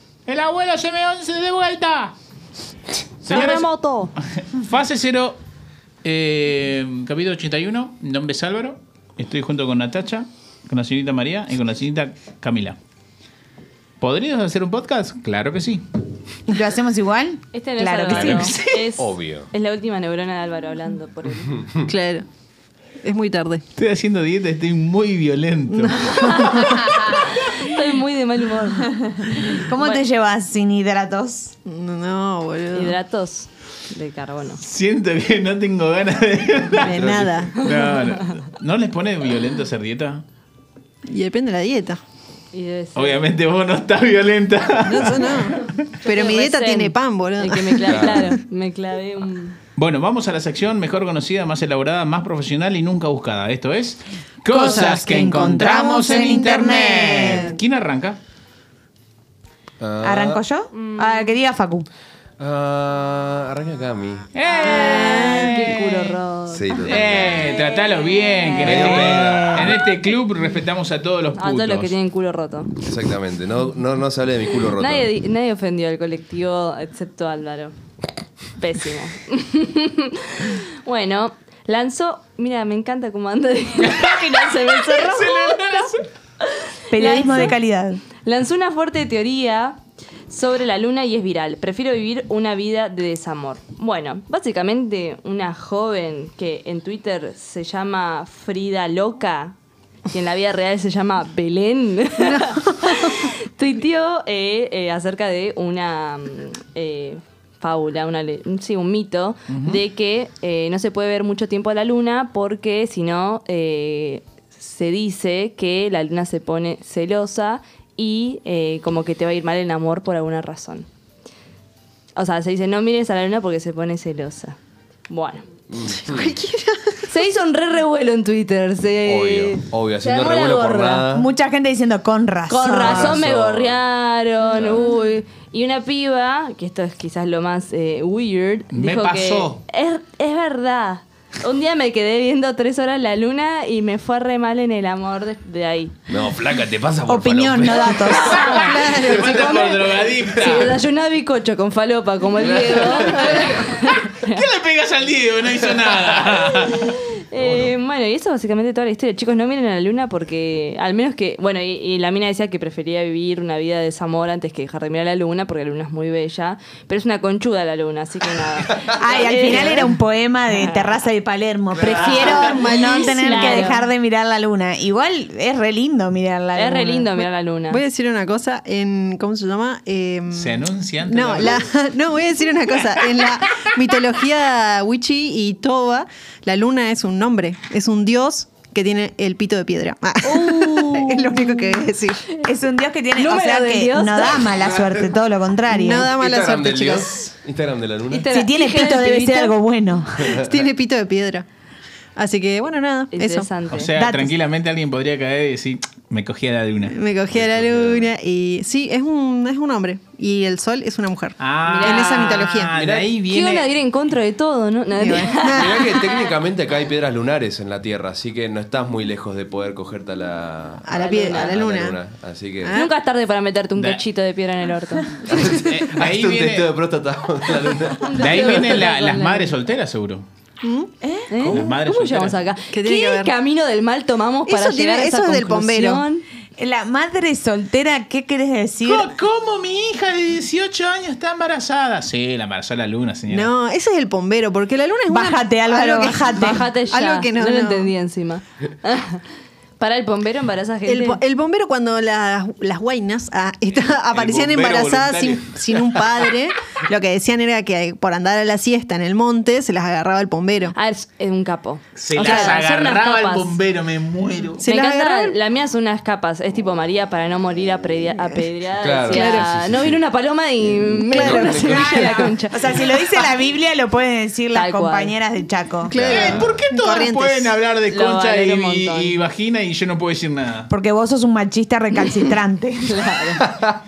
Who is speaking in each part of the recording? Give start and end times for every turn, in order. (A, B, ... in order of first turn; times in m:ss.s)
0:00.2-0:02.1 A
0:03.2-0:03.6 A
0:03.3-0:04.1 B
0:04.4-0:05.4 A
0:06.0-0:12.8 A
0:14.0-0:15.8 A
0:16.5-0:18.7 C
0:17.5-0:21.6 B
0:18.1-0:18.8 A
0:19.0-0:19.5 D
0:21.9-0:22.2 E
0:23.0-0:23.6 E
0:23.8-0:26.5 A
0:25.7-0:26.8 E
0:26.2-0:30.0 B
0:29.3-0:31.5 C
0:31.6-0:33.0 E
0:32.7-0:34.6 B
0:34.6-0:37.0 A
0:36.7-0:37.6 E
0:36.9-0:37.4 D
0:37.6-0:40.2 A
0:37.6-0:38.0 B
0:41.1-0:42.0 E
0:42.5-0:43.2 B
0:42.9-0:45.4 A
0:44.8-0:48.4 E
0:46.0-0:49.6 B
0:47.8-0:48.2 D
0:49.8-0:58.2 A
0:54.5-0:57.6 C
0:54.5-0:55.6 E
0:59.8-1:00.4 D
1:00.0-1:01.8 C
1:00.7-1:01.4 B
1:02.4-1:04.3 D
1:04.3-1:06.1 A
1:04.5-1:08.9 B
1:06.5-1:07.4 D
1:06.8-1:11.9 A
1:08.6-1:09.7 D
1:08.9-1:09.8 C
1:11.3-1:12.7 B
1:12.8-1:15.1 D
1:14.8-1:17.7 B
1:18.6-1:27.6 B
1:24.8-1:25.9 A
1:26.9-1:28.0 C
1:28.2-1:39.5 B
1:40.1-2:00.9 B
1:49.5-1:49.8 A
2:02.1-2:05.4 B
2:05.7-2:06.3 D
2:05.9-2:07.1 E
2:07.1-2:11.1 B
2:09.0-2:11.3 D
2:11.1-2:13.2 C
2:12.5-2:26.0 B
2:12.8-2:13.8 D
2:14.5-2:14.9 D
2:18.7-2:19.6 A
2:26.1-2:28.5 D
2:27.1-2:28.5 C
2:27.9-2:28.9 B
2:28.1-2:30.7 A
2:28.5-2:29.7 E
2:29.2-2:30.6 D
2:30.3-2:34.4 B
2:32.4-2:33.4 D
2:34.2-2:36.9 A
2:35.7-2:36.1 D
2:36.7-2:49.9 B
2:37.4-2:37.7 D
2:48.9-2:57.1 C
2:50.5-2:50.9 B
2:51.8-2:53.6 E
2:51.9-2:52.4 A
2:52.1-2:53.9 B
2:56.5-2:57.8 B
2:57.2-3:12.3 E
3:00.3-3:01.6 A
3:10.2-3:11.4 B
3:12.4-3:16.1 C
3:13.1-3:14.5 B
3:14.5-3:15.2 D
3:15.7-3:17.3 E
3:16.1-3:18.2 D
3:18.1-3:19.6 B
3:18.3-3:20.4 C
3:20.2-3:20.6 D
3:20.3-3:21.4 E
3:22.2-3:23.5 E
3:23.1-3:23.9 B
3:23.7-3:27.0 A
3:23.9-3:24.3 C
3:26.8-3:32.8 E
3:27.3-3:28.1 D
3:31.4-3:33.7 A
3:31.6-3:32.5 B
3:32.7-3:33.1 D
3:33.3-3:36.3 B
3:35.0-3:36.0 E
3:35.6-3:42.8 D
3:40.8-3:42.0 E
3:40.9-3:41.6 B
3:42.6-3:42.9 E
3:42.7-3:45.4 B
3:43.8-3:44.0 A
3:45.2-3:46.7 A
3:45.3-3:48.7 D
3:48.0-3:49.5 B
3:48.2-3:50.2 A
3:50.6-3:50.9 E
3:51.0-3:51.3 C
3:51.3-3:56.2 B
3:51.4-3:52.4 A
3:52.7-3:53.3 E
3:54.5-3:56.0 E
3:56.6-3:59.2 C
3:58.8-4:03.5 A
4:03.3-4:07.9 E
4:05.1-4:06.7 C
4:06.4-4:09.2 B
4:09.8-4:11.2 B
4:10.8-4:20.7 E
4:14.1-4:16.0 A
4:20.7-4:23.5 B
4:22.0-4:24.6 A
4:22.2-4:22.6 E
4:24.6-4:25.4 E
4:24.6-4:33.2 B
4:28.2-4:28.4 E
4:28.8-4:30.0 D
4:29.1-4:29.5 E
4:30.7-4:32.2 D
4:31.1-4:36.0 C
4:31.2-4:31.6 E
4:34.5-4:35.2 B
4:35.9-4:36.7 D
4:35.9-4:37.5 E
4:36.0-4:40.7 A
4:37.9-4:39.2 B
4:40.7-4:43.0 C
4:42.8-4:43.4 B
4:43.4-4:43.7 D